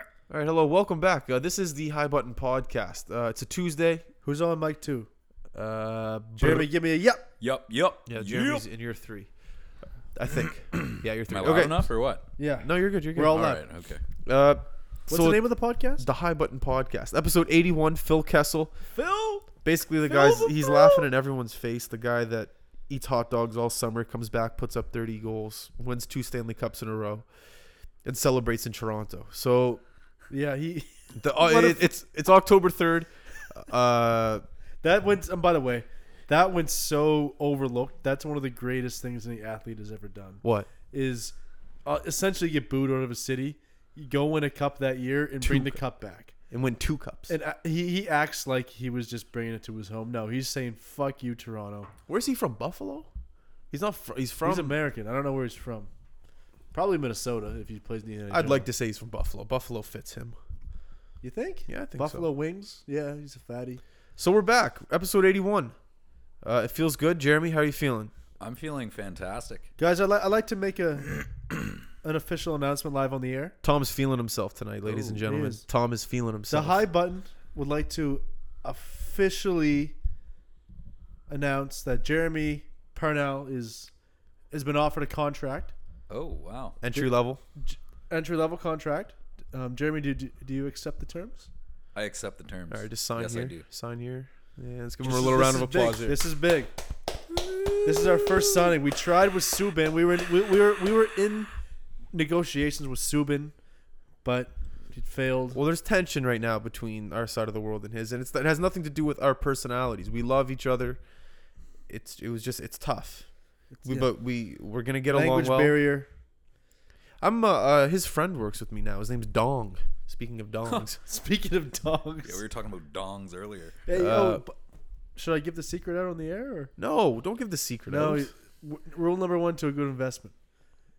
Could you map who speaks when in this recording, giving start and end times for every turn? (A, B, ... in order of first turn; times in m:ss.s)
0:00.3-0:04.0 A
0:04.2-0:05.1 B
0:05.5-0:06.7 A
0:06.4-0:07.3 B
0:07.4-0:08.6 C
0:08.1-0:09.3 A
0:10.1-0:11.9 A
0:10.5-0:12.2 C
0:12.4-0:13.6 B
0:12.6-0:13.5 A
0:13.3-0:14.0 C
0:14.2-0:18.7 A
0:15.1-0:16.0 B
0:18.9-0:19.5 B
0:19.6-0:27.2 A
0:20.1-0:21.0 B
0:28.0-0:29.8 A
0:30.3-0:31.9 B
0:31.2-0:34.4 A
0:34.8-0:46.3 B
0:40.4-0:40.7 A
0:45.4-0:45.8 A
0:46.5-0:47.3 A
0:47.3-0:51.9 B
0:52.1-0:53.1 A
0:53.7-0:54.7 A
0:54.4-0:55.9 B
0:56.7-0:58.7 B
0:58.3-1:00.4 A
1:01.2-1:03.8 B
1:01.7-1:02.2 A
1:04.2-1:05.7 A
1:06.4-1:08.1 A
1:08.4-1:09.7 C
1:09.8-1:11.2 B
1:12.0-1:13.5 B
1:13.6-1:16.8 A
1:14.8-1:15.6 B
1:16.5-1:20.0 B
1:21.3-1:23.9 B
1:24.5-1:25.7 B
1:26.1-1:26.8 C
1:26.8-1:27.4 A
1:26.9-1:31.5 B
1:31.9-1:33.6 C
1:32.7-1:36.2 A
1:35.0-1:36.7 B
1:37.3-1:38.7 A
1:37.8-1:41.5 B
1:42.1-1:43.5 B
1:44.2-1:45.6 B
1:45.5-1:51.0 A
1:51.9-1:53.3 A
1:53.7-1:54.1 B
1:53.8-1:55.7 A
1:55.1-1:56.1 B
1:57.2-2:01.0 A
2:00.6-2:02.4 B
2:02.2-2:03.8 C
2:03.8-2:04.6 B
2:03.9-2:04.4 A
2:05.2-2:06.7 B
2:06.8-2:08.3 A
2:07.9-2:10.3 B